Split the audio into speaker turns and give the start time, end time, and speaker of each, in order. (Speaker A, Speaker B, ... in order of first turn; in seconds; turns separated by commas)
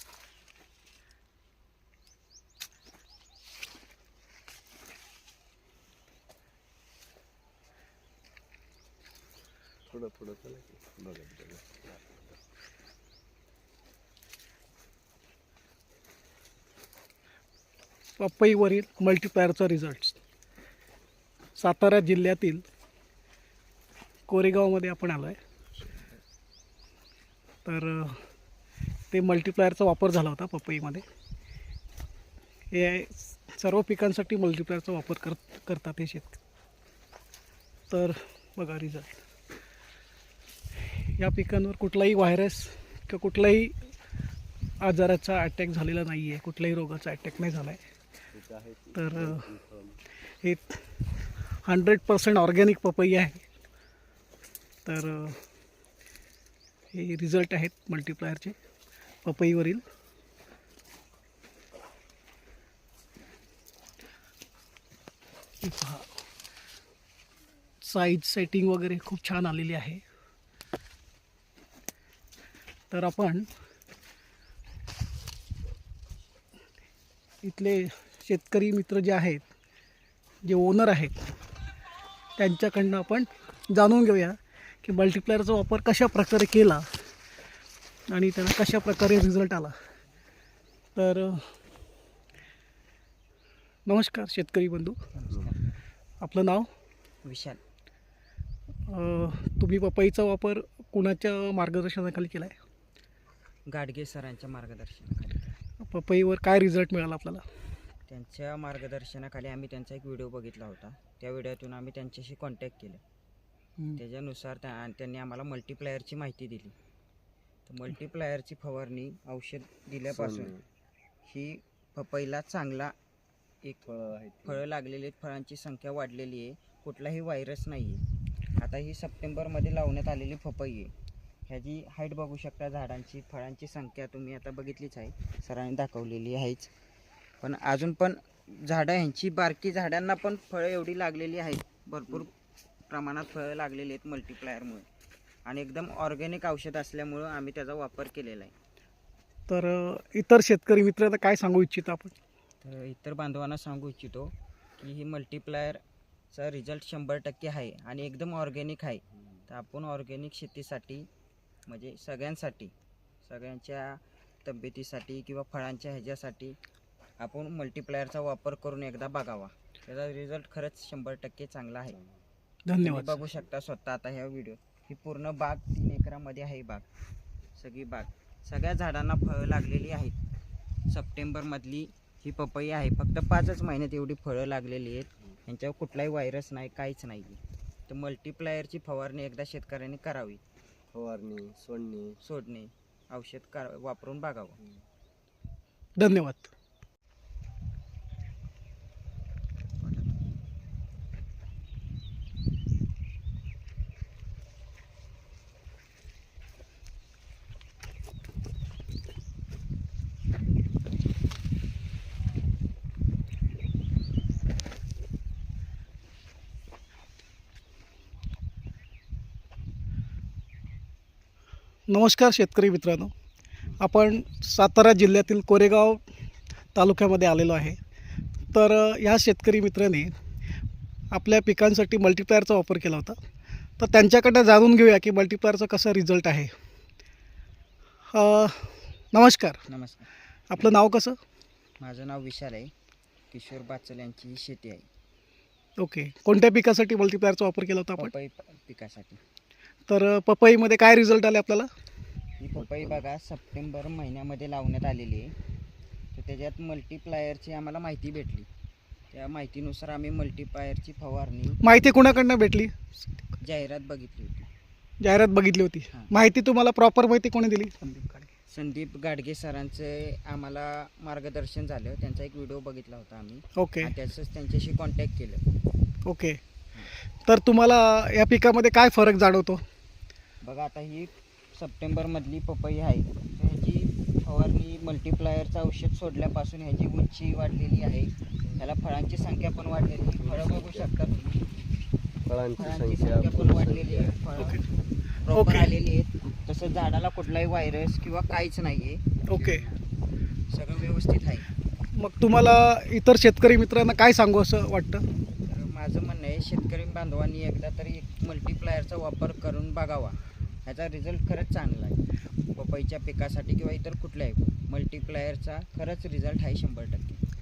Speaker A: 9.9-11.9, Speaker B: 18.2-20.2, Speaker B: 21.6-22.6, Speaker B: 24.3-25.4, Speaker C: 25.8-26.2, Speaker B: 27.6-28.2, Speaker B: 29.1-31.1, Speaker B: 32.7-36.4, Speaker B: 37.9-39.2, Speaker B: 41.0-43.9, Speaker B: 44.8-47.8, Speaker A: 48.3-50.0, Speaker B: 49.0-49.5, Speaker B: 50.4-50.8, Speaker B: 51.6-53.4, Speaker B: 54.9-55.4, Speaker B: 56.9-58.6, Speaker B: 59.2-59.8, Speaker B: 65.6-66.2, Speaker B: 67.8-70.0, Speaker B: 72.9-73.5, Speaker B: 77.4-79.5, Speaker B: 80.5-81.2, Speaker B: 82.4-86.9, Speaker B: 88.1-89.8, Speaker B: 91.0-91.5, Speaker B: 93.9-95.0, Speaker C: 95.2-95.5, Speaker B: 96.2-96.7, Speaker C: 97.2-97.6, Speaker B: 98.9-102.6, Speaker C: 103.7-105.4, Speaker B: 105.8-107.5, Speaker C: 108.1-113.0, Speaker C: 114.0-116.8, Speaker C: 117.7-120.5, Speaker A: 120.1-120.6, Speaker C: 121.3-123.0, Speaker A: 123.8-124.6, Speaker C: 124.5-128.0, Speaker C: 128.6-130.9, Speaker C: 131.5-136.7, Speaker C: 137.4-142.3, Speaker C: 142.9-144.9, Speaker C: 145.5-148.5, Speaker B: 149.5-152.2, Speaker C: 152.6-155.8, Speaker C: 156.3-161.1, Speaker C: 161.7-162.7, Speaker C: 163.2-166.6, Speaker C: 167.2-172.0, Speaker B: 172.7-173.2, Speaker C: 172.8-176.9, Speaker C: 177.6-180.2, Speaker C: 180.9-190.4, Speaker A: 190.9-192.2, Speaker C: 192.2-194.6, Speaker B: 196.0-196.5, Speaker C: 199.8-200.2, Speaker B: 221.9-223.1, Speaker B: 223.8-226.0, Speaker B: 226.8-227.8, Speaker B: 228.5-230.1, Speaker B: 231.1-233.2, Speaker B: 233.8-236.5, Speaker B: 238.1-239.6, Speaker C: 239.7-240.1, Speaker B: 240.5-241.2, Speaker C: 241.8-242.7, Speaker C: 243.3-244.9, Speaker B: 245.8-248.1, Speaker C: 248.0-249.2, Speaker B: 249.9-251.7, Speaker C: 252.4-255.3, Speaker A: 252.6-253.0, Speaker C: 256.1-258.5, Speaker C: 259.1-261.6, Speaker B: 261.6-262.9, Speaker C: 263.4-264.5, Speaker B: 265.0-268.3, Speaker C: 268.5-275.4, Speaker B: 273.6-273.9, Speaker B: 276.1-276.4, Speaker B: 277.2-279.6, Speaker C: 280.4-291.4, Speaker A: 290.2-290.9, Speaker A: 292.3-294.3, Speaker C: 292.6-294.6, Speaker B: 294.4-294.6, Speaker C: 295.2-299.8, Speaker B: 295.3-295.7, Speaker B: 299.3-299.6, Speaker C: 300.5-301.5, Speaker B: 302.0-305.0, Speaker C: 305.5-312.0, Speaker C: 312.6-317.2